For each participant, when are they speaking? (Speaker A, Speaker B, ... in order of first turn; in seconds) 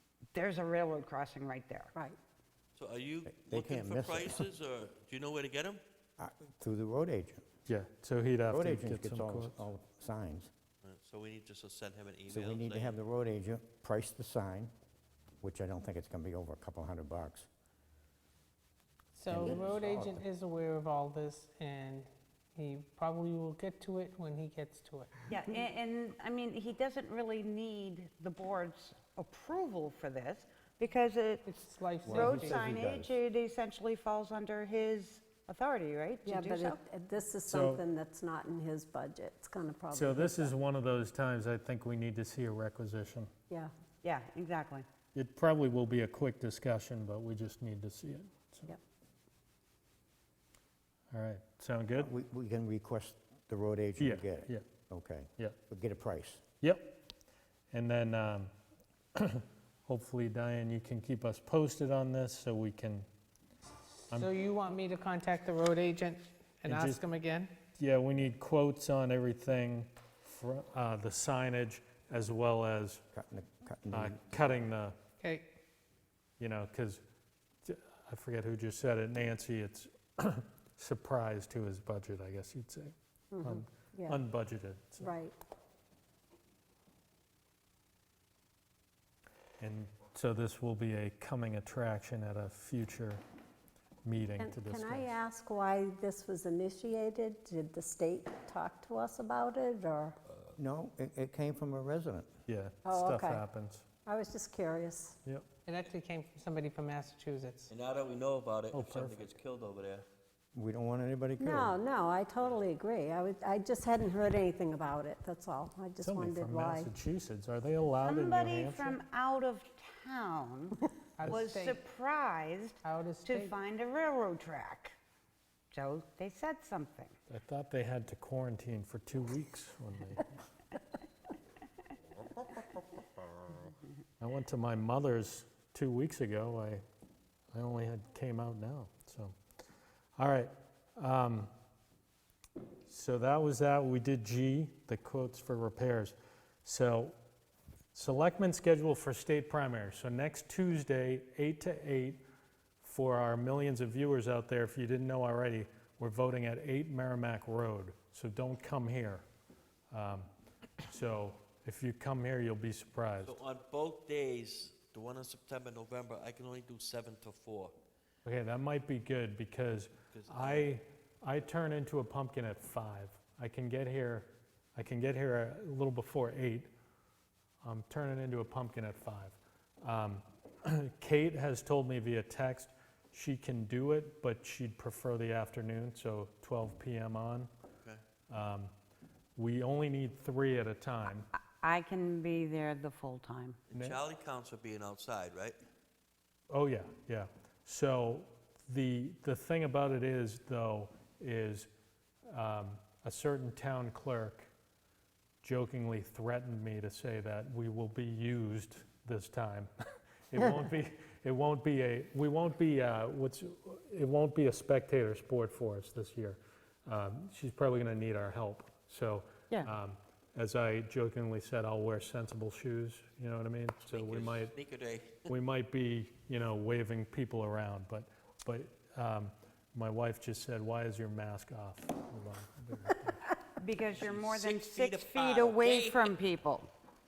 Speaker A: 0.3-1.9, 25.3-31.5, 32.1-36.8, 44.0-44.9, 118.0-125.0, 125.7-127.2, 191.3-193.6, 233.6-236.7
Speaker B: 2.8-5.8, 10.8-13.0, 107.7-110.1, 163.2-167.8, 170.1-170.7, 193.7-195.6, 223.8-225.3, 233.9-236.1
Speaker C: 3.3-4.5, 6.2-7.5, 8.5-10.5, 12.3-14.7, 15.4-17.5, 19.3-20.2, 32.0-33.1, 52.0-56.4, 73.1-74.5, 100.6-102.3, 110.5-111.8
Speaker D: 7.7-9.7, 37.5-37.8, 39.9-43.3, 45.1-48.7, 51.1-52.1, 54.0-54.6, 56.6-57.0, 57.7-58.5, 59.1-63.1, 66.7-67.0, 67.7-73.0, 73.9-75.0, 76.4-77.0, 77.7-85.1, 89.6-93.2, 94.0-95.2, 102.5-103.9, 108.7-109.3, 116.0-119.0, 127.3-130.3, 134.2-136.8, 137.5-139.4, 140.2-141.5, 142.9-147.2, 147.9-152.2, 152.8-159.2, 159.9-160.3, 160.8-163.4, 168.2-176.7, 177.6-187.5, 188.3-188.7, 189.4-191.3, 193.7-194.0, 196.5-201.7, 202.3-204.5, 205.4-209.7, 210.3-224.5, 225.3-233.3
Speaker E: 19.1-25.3, 31.4-32.6, 64.1-67.5, 75.2-75.5, 105.7-107.7, 121.2-121.8, 122.8-123.5
Speaker F: 36.2-40.5, 83.3-84.2, 85.0-85.3, 94.4-100.2, 102.8-103.5, 104.0-105.2, 111.4-116.9